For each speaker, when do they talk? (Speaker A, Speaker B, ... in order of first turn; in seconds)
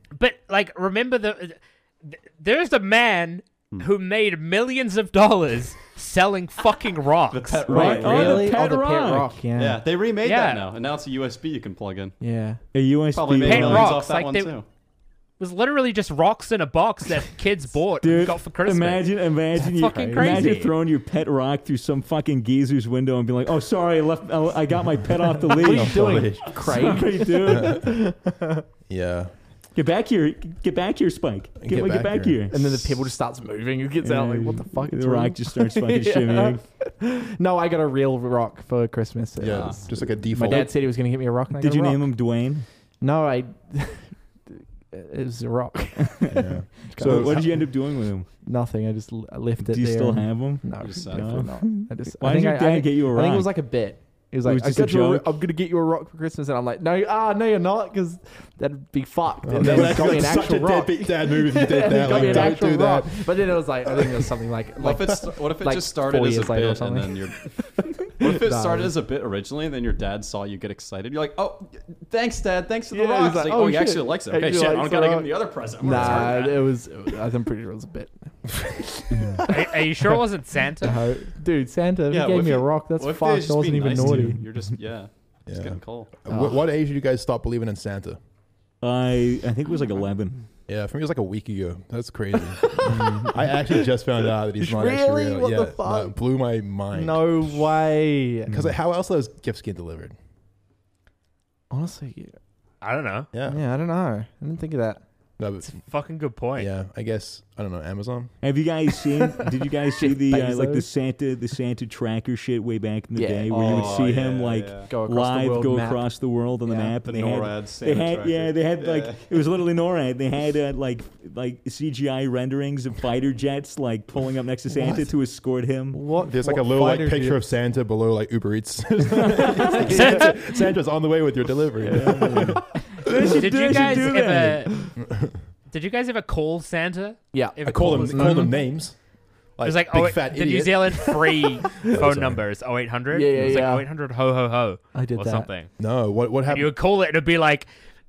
Speaker A: 0.1-8.0, 10.2-10.7, 13.4-14.5, 15.4-20.7, 79.5-81.0, 102.8-103.3, 105.6-106.7, 129.9-130.3, 133.3-134.9, 135.7-138.6, 139.6-145.7, 146.4-147.7
Speaker B: 7.3-8.6, 9.6-12.2, 13.1-14.7, 39.5-39.8, 50.8-51.5, 64.8-76.7, 82.1-86.1, 113.5-114.9, 117.0-119.3
Speaker C: 7.7-9.4, 12.7-14.0, 18.0-27.8, 29.7-32.7, 34.0-36.6, 40.3-40.8, 41.5-42.6, 46.1-46.4, 47.0-48.3, 49.6-53.5, 54.4-55.3, 62.0-62.5, 84.0-84.4, 88.8-90.5, 92.8-93.3, 108.4-126.0, 129.2-129.8, 131.9-134.8
Speaker D: 7.7-9.8, 12.2-12.6, 19.8-20.4, 25.5-28.6, 32.5-42.0, 43.0-46.4, 46.9-47.4, 48.4-68.9, 72.9-80.1, 80.8-84.4, 86.3-86.6, 92.5-93.8, 94.6-96.2, 96.9-98.7, 101.7-102.3, 103.4-105.0, 109.1-110.9, 113.1-114.2, 114.9-116.1, 116.6-116.9, 124.7-125.0, 125.9-127.4, 129.7-130.2, 131.9-132.6, 137.3-138.6, 141.1-141.9, 143.1-143.9, 144.9-145.5
Speaker E: 25.6-26.6, 27.5-27.8, 28.9-29.3, 31.6-32.4, 39.4-40.7, 46.3-47.6, 59.4-64.2, 75.8-76.3, 79.1-79.4, 85.5-88.2, 90.7-97.6, 98.5-100.1, 103.3-103.6, 105.4-105.8, 106.5-108.3, 126.2-132.6, 135.0-135.4, 137.6-139.0, 139.6-141.3, 141.9-142.4, 145.8-146.7